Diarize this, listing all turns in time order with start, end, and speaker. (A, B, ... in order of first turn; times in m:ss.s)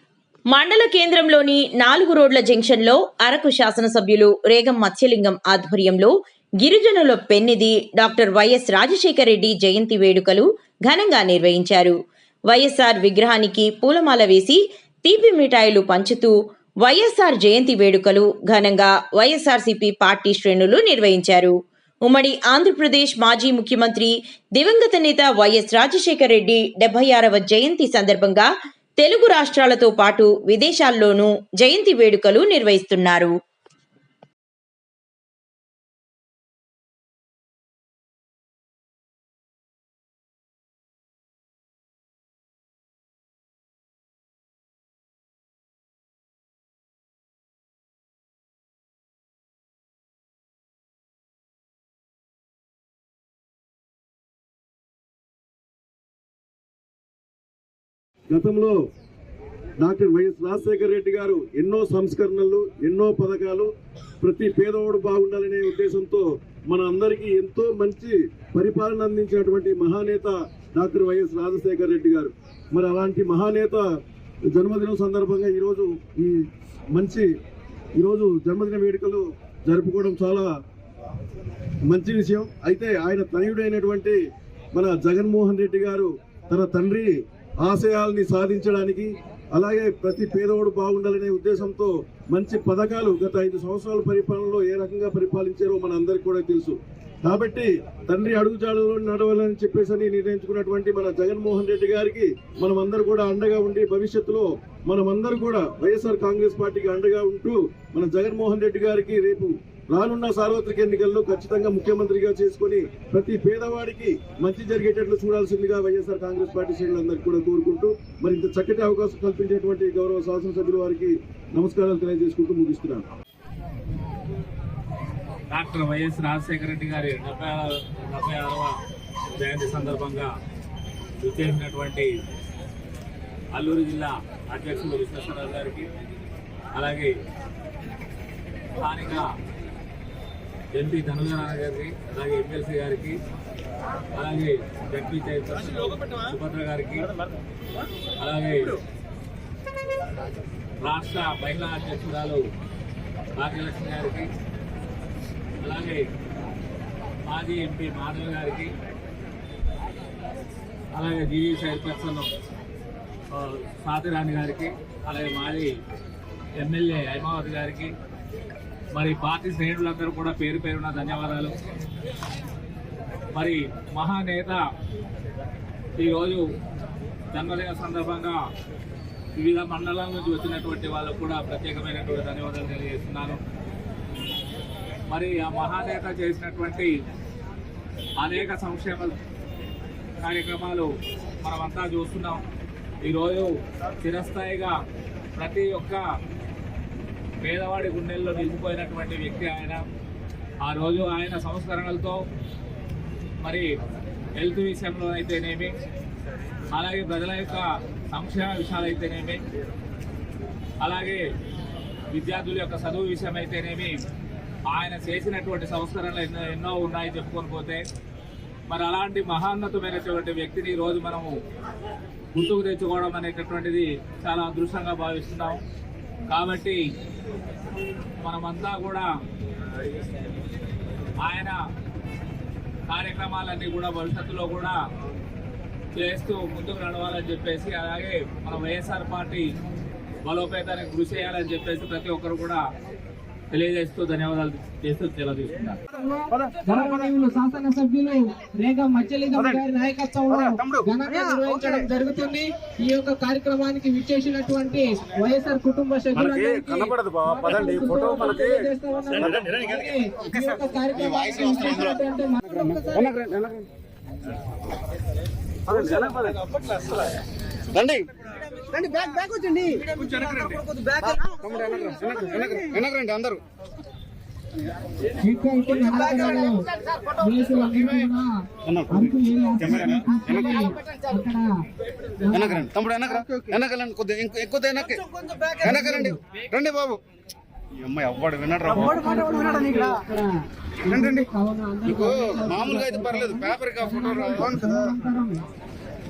0:00.5-0:12.0 A
0:12.5-0:33.3 A
0:58.3-0:58.8 B
0:59.8-1:03.7 B
1:04.2-1:13.8 B
1:14.5-1:17.3 B
1:18.0-1:20.5 B
1:21.9-1:24.2 B
1:24.7-1:27.1 B
1:27.6-2:03.0 B
2:05.5-2:08.8 C
2:09.4-2:10.3 C
2:11.2-2:12.2 C
2:13.5-2:15.9 C
2:16.7-2:17.2 C
2:18.8-2:19.3 C
2:20.7-2:23.2 C
2:24.1-2:27.1 C
2:28.2-2:28.8 C
2:30.8-2:32.4 C
2:33.4-2:34.3 C
2:35.6-2:36.1 C
2:37.2-2:38.7 C
2:40.9-2:42.3 C
2:43.3-2:45.7 C
2:46.5-2:47.9 C
2:48.9-2:51.5 C
2:53.3-2:54.6 C
2:56.0-2:56.4 C
2:57.3-2:58.4 C
2:59.4-3:03.4 C
3:05.1-3:07.0 C
3:08.2-3:09.1 C
3:10.2-3:10.9 C
3:11.4-3:12.4 C
3:13.0-3:14.8 C
3:15.4-3:16.0 C
3:17.4-3:19.8 C
3:20.6-3:22.2 C
3:23.4-3:23.7 C
3:24.3-3:25.8 C
3:26.7-3:29.4 C
3:30.8-3:31.2 C
3:32.1-3:34.0 C
3:34.7-3:37.8 C
3:38.7-3:41.3 C
3:42.3-3:45.6 C
3:46.3-3:46.8 C
3:48.2-3:49.1 C
3:51.2-3:51.6 C
3:52.9-3:54.8 C
3:55.9-3:59.5 C
4:00.2-4:02.6 C
4:03.5-4:05.8 C
4:05.9-4:23.1 D
4:16.6-4:18.2 E
4:23.0-4:23.6 E
4:25.7-4:26.4 E
4:27.7-4:28.0 E
4:28.8-4:29.8 D
4:29.9-4:30.6 E
4:31.2-4:33.4 E
4:35.2-4:38.3 D
4:38.9-4:41.5 D
4:42.2-4:42.7 D
4:42.6-4:45.0 E
4:45.6-4:46.2 D
4:45.7-4:47.0 E
4:47.8-4:49.0 E
4:48.7-4:50.3 D
4:50.8-4:55.4 D
4:52.7-4:54.4 E